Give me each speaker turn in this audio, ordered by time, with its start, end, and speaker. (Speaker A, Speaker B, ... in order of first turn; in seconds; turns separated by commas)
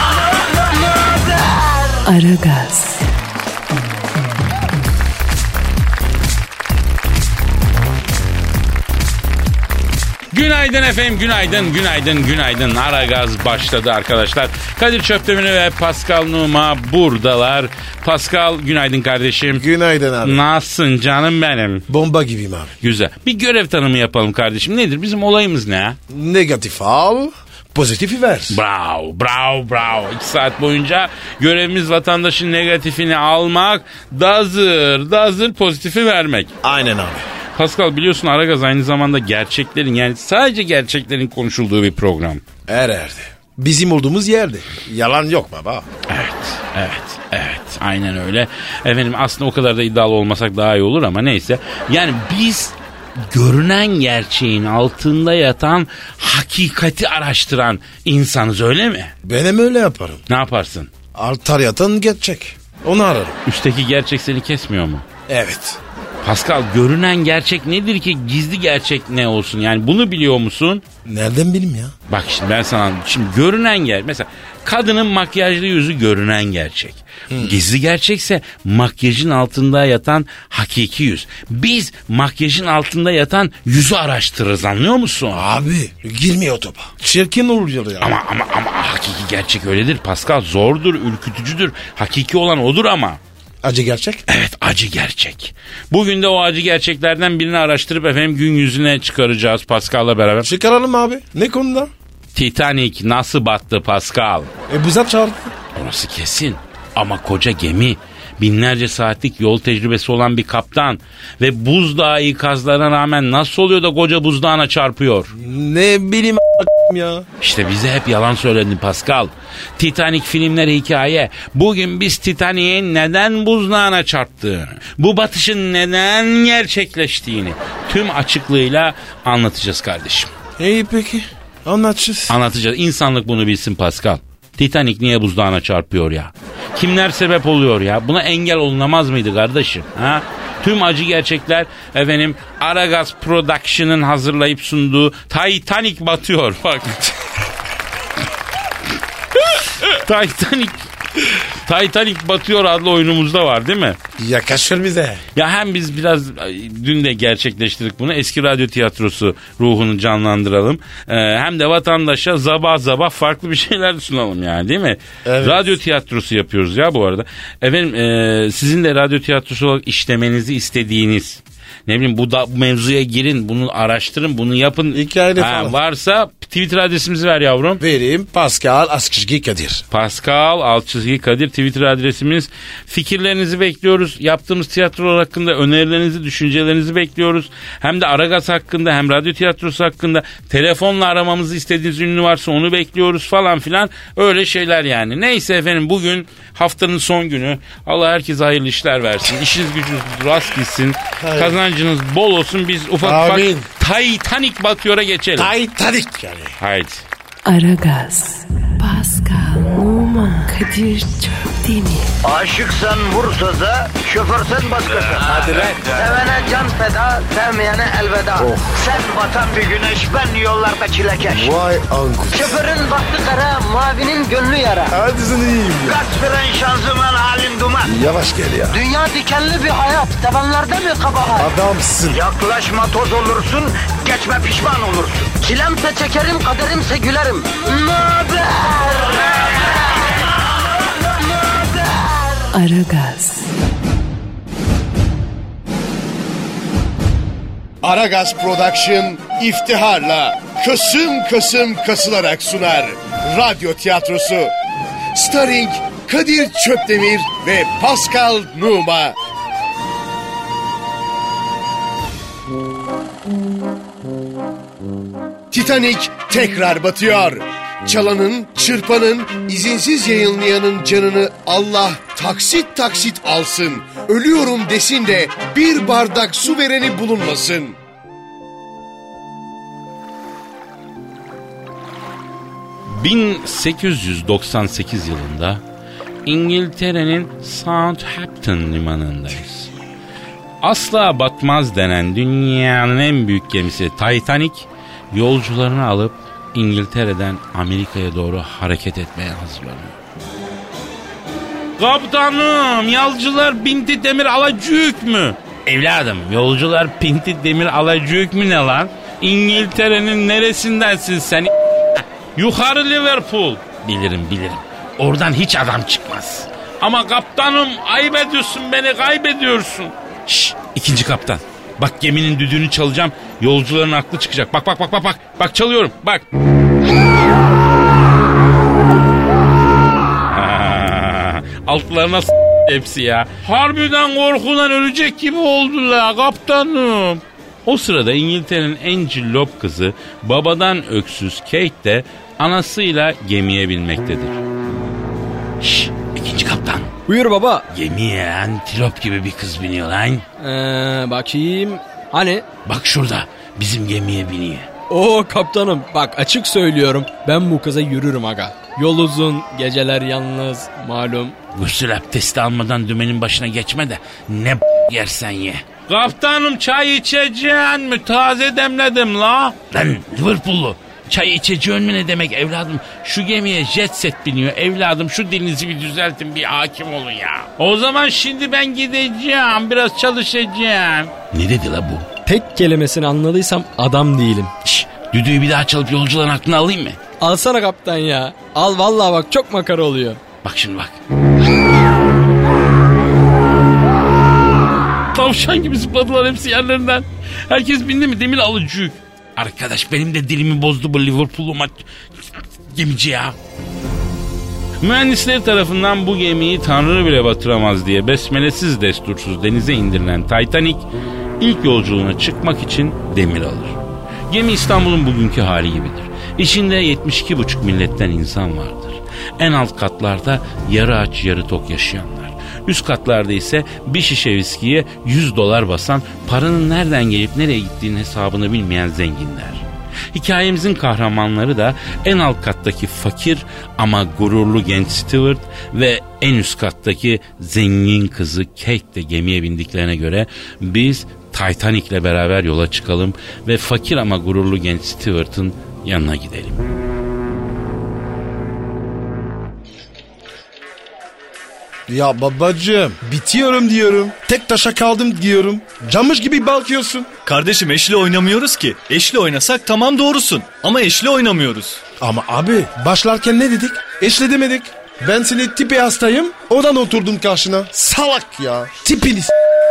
Speaker A: 2.0-3.0, Speaker B: 10.3-19.6, Speaker C: 19.5-20.4, Speaker B: 20.2-21.8, Speaker C: 21.9-22.7, Speaker B: 22.8-26.0, Speaker C: 26.1-28.6, Speaker B: 28.5-36.5, Speaker C: 36.6-37.2, Speaker B: 37.6-42.4, Speaker C: 42.7-45.8, Speaker B: 46.1-52.8, Speaker B: 53.3-59.1, Speaker C: 59.2-60.2, Speaker B: 60.3-60.9, Speaker C: 61.1-63.4, Speaker B: 63.5-65.0, Speaker C: 65.3-65.8, Speaker B: 66.2-70.8, Speaker C: 71.0-71.9, Speaker B: 72.1-85.4, Speaker C: 77.3-77.6, Speaker C: 85.3-88.1, Speaker B: 88.0-93.2, Speaker C: 93.6-94.2, Speaker B: 94.3-100.5, Speaker C: 100.4-101.9, Speaker B: 102.3-104.5, Speaker C: 104.7-105.5, Speaker B: 105.8-115.3, Speaker C: 115.3-117.2, Speaker B: 117.4-130.3, Speaker C: 130.6-132.4, Speaker B: 132.3-147.1, Speaker B: 149.8-150.9, Speaker B: 151.6-154.0, Speaker C: 154.2-155.2, Speaker B: 155.3-177.8, Speaker C: 165.2-165.7, Speaker C: 174.9-175.8, Speaker C: 177.8-179.8, Speaker B: 179.9-205.5, Speaker C: 201.2-201.6, Speaker C: 203.0-203.7, Speaker C: 205.4-206.6, Speaker B: 206.6-207.0, Speaker A: 207.5-212.1, Speaker D: 212.2-221.7, Speaker C: 221.4-222.3, Speaker D: 222.3-224.9, Speaker C: 224.9-226.0, Speaker D: 225.9-227.9, Speaker C: 227.9-228.7, Speaker D: 228.7-231.2, Speaker C: 231.4-232.2, Speaker D: 232.1-239.1, Speaker A: 242.5-243.5, Speaker E: 247.8-254.5, Speaker E: 255.1-259.1, Speaker E: 265.5-277.8, Speaker B: 282.9-285.6, Speaker B: 286.2-289.7, Speaker B: 290.6-299.9, Speaker B: 301.8-311.5, Speaker B: 312.4-326.2, Speaker B: 330.3-344.4, Speaker B: 345.6-346.9, Speaker F: 347.1-347.6, Speaker B: 347.7-350.2, Speaker F: 350.4-352.4, Speaker B: 352.6-354.7, Speaker F: 354.9-361.4, Speaker B: 361.6-382.1, Speaker F: 382.2-384.5, Speaker B: 384.6-387.0, Speaker F: 387.2-390.2, Speaker B: 390.4-390.9, Speaker B: 395.1-401.8, Speaker B: 402.7-403.4, Speaker B: 404.8-410.9, Speaker B: 411.4-446.6, Speaker C: 451.9-457.1, Speaker G: 457.2-461.8, Speaker C: 462.0-469.3